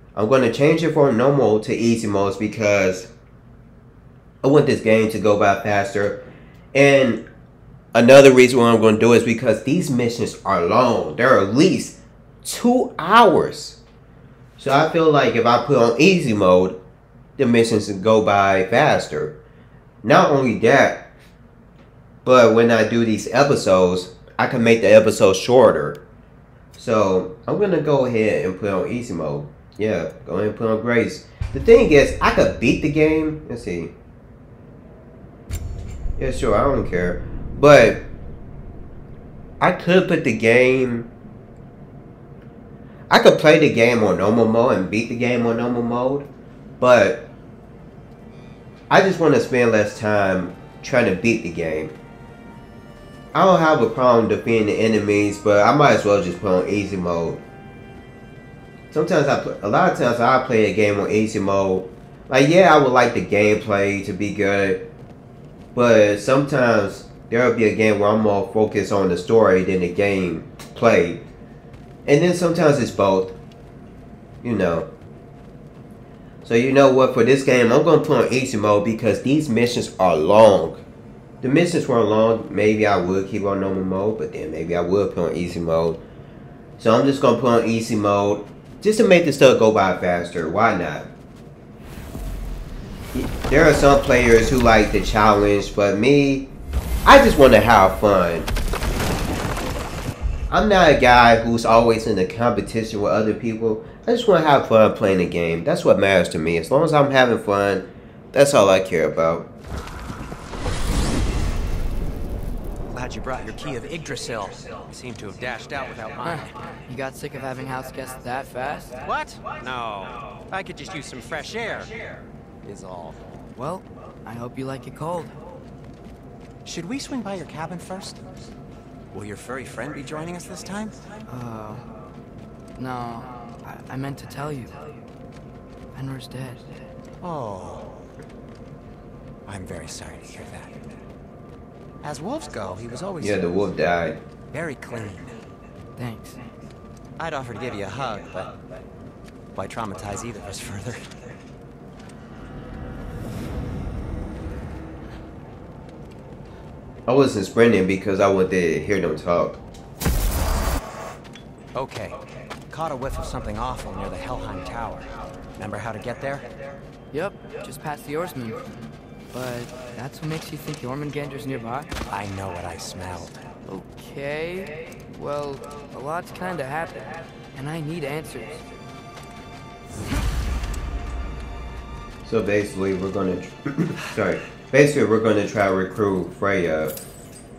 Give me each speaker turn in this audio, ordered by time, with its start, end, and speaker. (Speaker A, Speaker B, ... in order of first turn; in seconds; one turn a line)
Speaker A: 0.2-3.1
Speaker A: 4.4-6.2
Speaker A: 6.7-7.2
Speaker A: 7.9-13.8
Speaker A: 14.6-16.8
Speaker A: 17.4-19.4
Speaker A: 20.0-21.1
Speaker A: 22.2-26.0
Speaker A: 26.8-33.9
Speaker A: 36.2-38.1
Speaker A: 39.6-41.1
Speaker A: 43.1-46.3
Speaker A: 46.8-47.2
Speaker A: 48.9-51.9
Speaker A: 53.3-57.4
Speaker A: 58.9-64.8
Speaker A: 65.7-71.2
Speaker A: 72.1-73.3
Speaker A: 74.4-74.9
Speaker A: 76.5-80.8
Speaker A: 81.4-86.0
Speaker A: 86.8-91.1
Speaker A: 93.1-96.5
Speaker A: 97.0-98.5
Speaker A: 100.5-109.5
Speaker B: 112.9-116.6
Speaker C: 116.2-119.0
Speaker B: 119.0-121.9
Speaker B: 122.6-123.4
Speaker C: 123.5-125.3
Speaker B: 126.7-128.2
Speaker B: 129.1-131.0
Speaker C: 131.3-131.9
Speaker C: 132.8-134.8
Speaker C: 135.9-136.7
Speaker B: 137.2-138.0
Speaker B: 139.5-140.7
Speaker B: 142.0-143.5
Speaker A: 143.2-144.2
Speaker B: 144.5-145.4
Speaker C: 146.0-146.4
Speaker B: 147.2-148.6
Speaker B: 149.5-151.1
Speaker A: 157.1-159.6
Speaker B: 161.7-162.2
Speaker B: 162.7-166.5
Speaker C: 167.1-168.7
Speaker C: 169.3-171.9
Speaker B: 172.1-173.4
Speaker C: 173.7-178.6
Speaker A: 182.2-187.0